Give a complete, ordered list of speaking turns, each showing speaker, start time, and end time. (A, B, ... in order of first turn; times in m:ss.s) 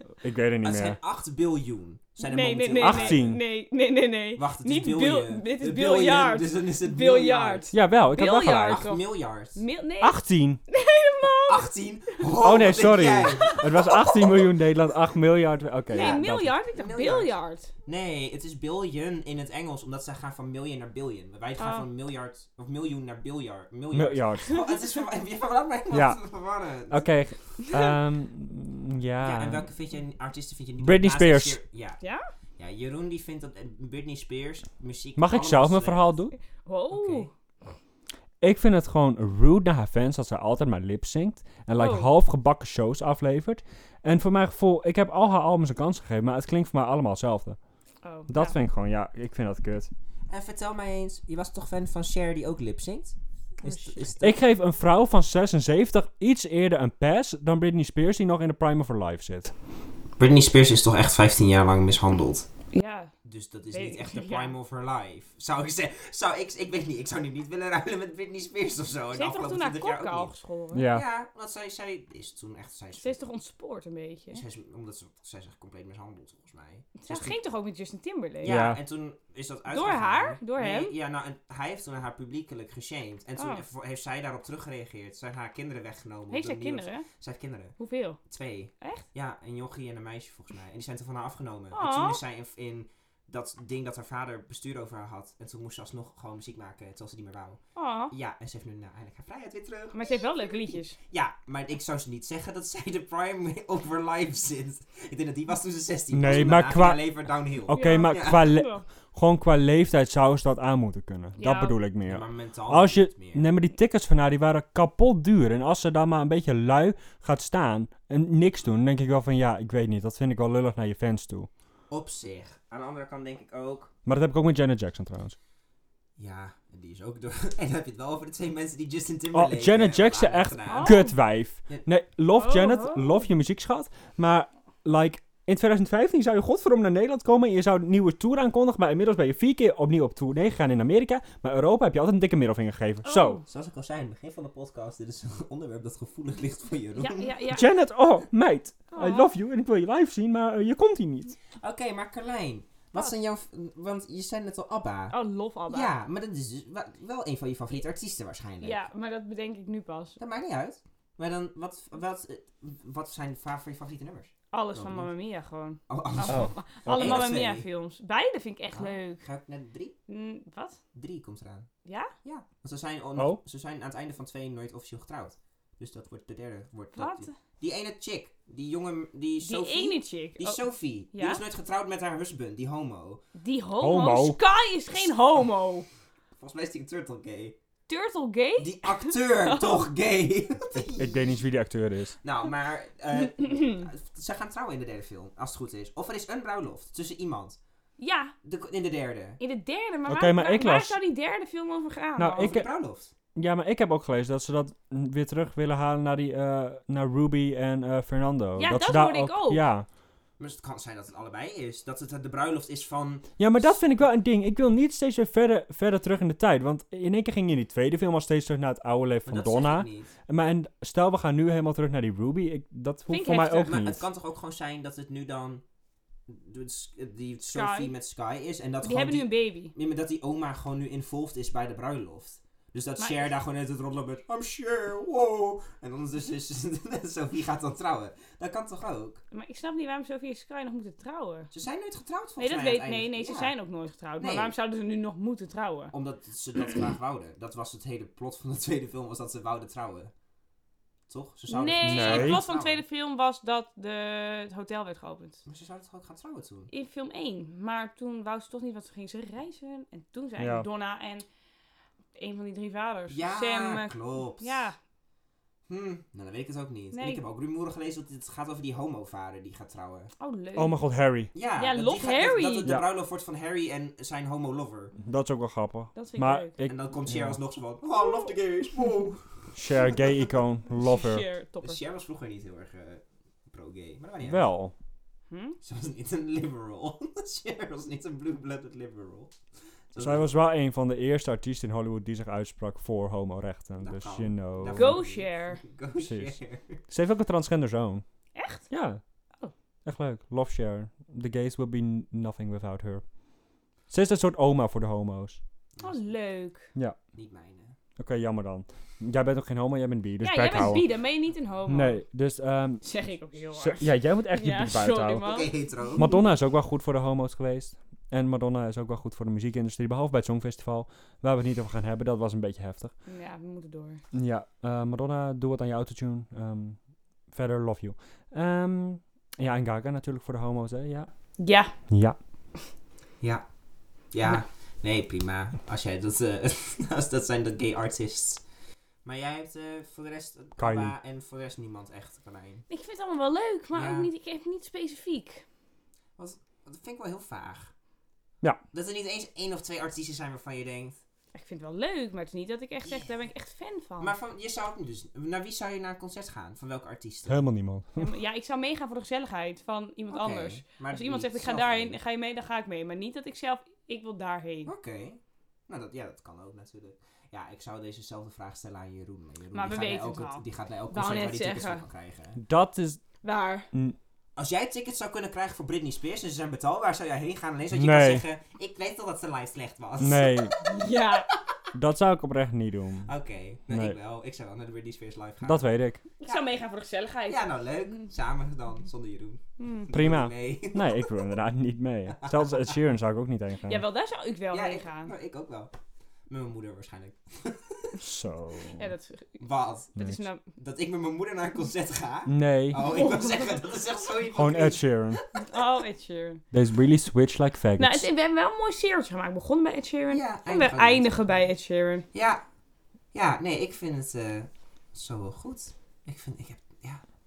0:00.2-0:01.0 A
0:00.6-0:03.3 B
0:02.2-0:11.7 C
0:02.8-0:03.4 A
0:04.4-0:07.7 B
0:07.7-0:08.8 A
0:08.7-0:09.6 B
0:10.0-0:10.6 A
0:11.5-0:14.5 B
0:12.4-0:16.6 A
0:15.9-0:27.1 B
0:15.9-0:17.7 C
0:21.6-0:21.8 C
0:23.9-0:24.6 A
0:25.9-0:26.2 A
0:26.9-0:29.6 A
0:29.2-0:32.0 B
0:30.8-0:31.6 A
0:32.0-0:32.3 C
0:32.6-0:36.1 B
0:35.2-0:36.3 A
0:36.6-0:37.3 C
0:36.9-0:37.3 B
0:38.4-0:47.6 A
0:41.8-0:42.1 C
0:48.0-0:48.5 C
0:48.3-0:49.9 A
0:50.3-0:54.4 B
0:53.6-0:54.0 C
0:54.2-0:59.5 A
1:00.2-1:02.5 B
1:02.7-1:03.1 C
1:03.2-1:10.4 B
1:03.7-1:04.5 C
1:09.1-1:10.9 C
1:10.7-1:11.0 A
1:10.9-1:13.2 B
1:13.0-1:14.4 C
1:14.3-1:17.4 B
1:17.0-1:18.5 C
1:18.4-1:27.7 B
1:18.4-1:18.8 A
1:19.7-1:20.9 C
1:23.4-1:23.6 C
1:26.3-1:27.0 C
1:27.8-1:28.2 C
1:28.2-1:37.6 B
1:31.7-1:32.2 C
1:37.8-1:38.1 C
1:38.1-1:40.0 B
1:39.9-1:41.0 C
1:41.1-1:48.5 B
1:46.1-1:47.0 A
1:47.6-2:01.5 A
1:47.7-1:48.8 C
1:51.4-1:51.8 C
1:52.0-1:53.4 B
2:01.9-2:03.9 B
2:04.0-2:05.4 A
2:06.2-2:11.0 B
2:09.3-2:23.4 A
2:10.7-2:11.1 C
2:12.3-2:13.2 C
2:23.0-2:23.4 C
2:23.4-2:27.4 B
2:27.0-2:27.7 C
2:27.5-2:31.3 A
2:28.9-2:29.3 C
2:31.6-2:35.2 B
2:35.1-2:35.9 C
2:35.7-2:38.9 B
2:38.6-2:40.2 C
2:40.2-2:45.1 B
2:44.5-2:49.2 C
2:45.9-2:47.7 B
2:46.3-2:47.3 A
2:48.7-2:49.9 B
2:50.1-2:50.8 C
2:50.9-2:51.7 B
2:51.8-2:52.1 C
2:52.2-3:03.2 B
2:56.9-2:57.3 C
2:59.4-3:01.4 C
3:03.4-3:05.8 C
3:03.8-3:04.4 A
3:06.4-3:07.6 B
3:07.9-3:09.8 C
3:08.6-3:11.4 B
3:10.7-3:12.2 A
3:12.2-3:17.6 B
3:18.0-3:18.3 C
3:18.4-3:19.4 B
3:19.4-3:22.6 C
3:20.1-3:21.0 A
3:22.2-3:22.7 A
3:22.3-3:23.1 B
3:23.3-3:29.9 A
3:28.6-3:29.6 C
3:30.4-3:33.3 B
3:33.4-3:44.0 A
3:39.2-3:40.1 B
3:43.1-3:43.8 C
3:43.6-3:45.6 B
3:46.3-3:59.2 B
3:47.4-3:47.9 C
3:48.8-3:49.7 C
3:53.0-3:53.3 C
3:59.3-4:01.5 C
4:01.5-4:03.5 B
4:02.4-4:05.9 C
4:04.2-4:04.5 B
4:05.9-4:10.1 B
4:11.1-4:12.8 B
4:11.5-4:15.4 C
4:11.8-4:12.4 A
4:15.4-4:16.7 B
4:16.7-4:21.2 C
4:20.4-4:20.6 A
4:22.1-4:24.8 C
4:23.1-4:24.6 B
4:25.7-4:30.1 B
4:26.9-4:27.2 C
4:30.2-4:30.8 C
4:30.5-4:31.3 A
4:31.3-4:34.9 B
4:31.6-4:32.7 C
4:35.0-4:37.4 A
4:35.9-4:36.5 C
4:36.6-4:39.3 B
4:38.0-4:38.3 C
4:39.5-4:41.2 A
4:40.7-4:41.8 C
4:41.6-4:44.5 B
4:44.2-4:44.7 A
4:45.3-4:45.6 C
4:45.6-4:49.3 B
4:49.9-4:50.3 B
4:50.0-4:55.0 A
4:53.8-4:56.8 B
4:54.7-4:55.6 C
4:56.0-4:58.0 A
4:58.3-4:58.6 C
4:58.7-4:59.0 A
4:59.8-5:03.0 A
5:03.9-5:05.4 A
5:05.8-5:06.1 B
5:05.8-5:06.7 C
5:07.1-5:07.8 B
5:08.0-5:10.8 A
5:10.2-5:12.0 C
5:11.7-5:12.8 A
5:12.8-5:16.3 C
5:13.5-5:15.4 A
5:15.2-5:16.1 B
5:16.0-5:22.9 A
5:23.0-5:24.0 C
5:24.1-5:26.8 A
5:27.3-5:31.1 A
5:31.4-5:31.7 C
5:31.9-5:32.2 A
5:34.1-5:38.4 B
5:39.0-5:42.6 B
5:40.6-5:40.9 A
5:42.7-5:45.4 C
5:43.7-5:44.1 B
5:46.2-5:47.7 B
5:48.7-5:51.0 B
5:51.3-5:54.1 C
5:54.0-5:57.4 B
5:57.3-5:58.1 A
5:58.0-6:04.7 C
6:00.1-6:02.0 B
6:04.6-6:12.4 B
6:09.5-6:11.8 C
6:12.4-6:13.0 A
6:13.2-6:13.7 C
6:14.4-6:20.6 B
6:17.7-6:18.2 A
6:20.0-6:20.5 A
6:20.6-6:21.3 C
6:21.7-6:23.1 A
6:23.0-6:25.6 B
6:23.7-6:24.0 A
6:25.4-6:26.0 A
6:26.2-6:27.6 C
6:27.3-6:31.1 B
6:29.6-6:29.9 C
6:29.9-6:33.8 A
6:32.1-6:32.8 B
6:33.6-6:35.1 C
6:34.5-6:35.7 B
6:36.3-6:38.0 B
6:38.0-6:38.9 A
6:38.8-6:39.4 C
6:39.4-6:40.0 B
6:40.0-6:40.4 C
6:40.5-6:45.6 B
6:42.3-6:42.8 A
6:42.8-6:43.6 C
6:44.3-6:45.2 A
6:45.5-6:46.4 C
6:46.5-6:48.1 A
6:47.8-6:52.0 C
6:50.1-6:51.4 B
6:52.1-6:52.4 B
6:53.1-6:57.0 B